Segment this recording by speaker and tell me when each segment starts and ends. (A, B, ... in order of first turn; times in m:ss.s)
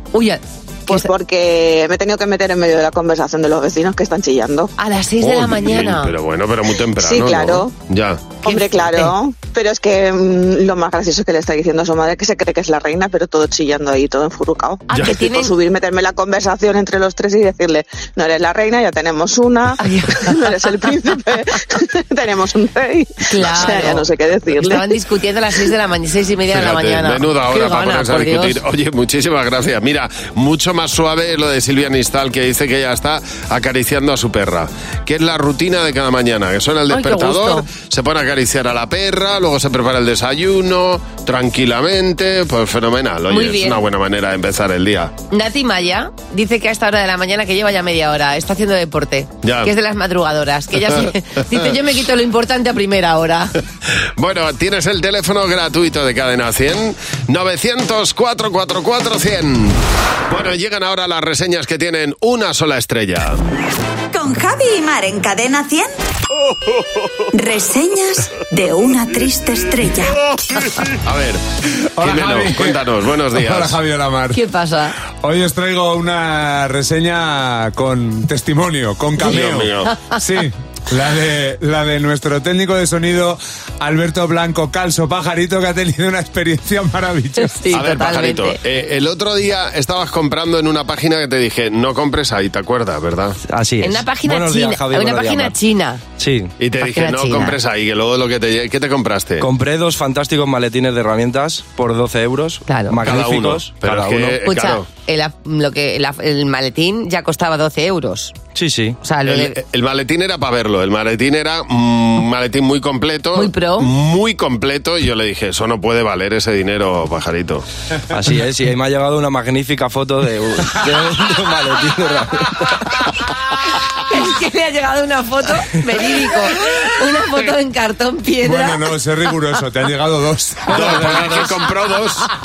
0:00.1-0:01.1 A
0:00.9-0:04.7 B
0:04.8-0:06.1 A
0:05.2-0:08.3 C
0:07.0-0:07.7 B
0:08.4-0:24.9 B
0:08.4-0:09.1 A
0:14.9-0:15.5 A
0:19.8-0:20.5 A
0:23.3-0:28.6 A
0:26.5-0:45.1 C
0:36.9-0:37.7 A
0:43.3-0:43.8 A
0:45.3-0:53.5 A
0:49.4-0:49.7 C
0:54.2-1:03.4 C
1:04.1-1:05.9 D
1:07.3-1:10.2 D
1:11.0-1:11.4 C
1:12.0-1:12.8 E
1:12.0-1:13.8 C
1:13.3-1:14.4 E
1:14.3-1:15.0 A
1:15.2-1:27.6 E
1:19.2-1:19.9 C
1:27.4-1:28.6 A
1:27.7-1:33.4 C
1:33.4-1:35.5 F
1:33.8-1:36.0 A
1:36.2-1:36.5 F
1:36.6-1:39.5 C
1:36.8-1:37.6 A
1:39.4-1:44.4 F
1:42.7-1:43.0 A
1:43.0-1:44.9 C
1:44.4-1:48.3 A
1:48.6-1:49.0 F
1:49.0-1:49.6 A
1:49.2-1:57.6 C
1:53.3-1:53.9 A
1:58.1-2:02.9 F
2:04.0-2:08.8 A
2:08.4-2:11.4 E
2:10.7-2:12.3 C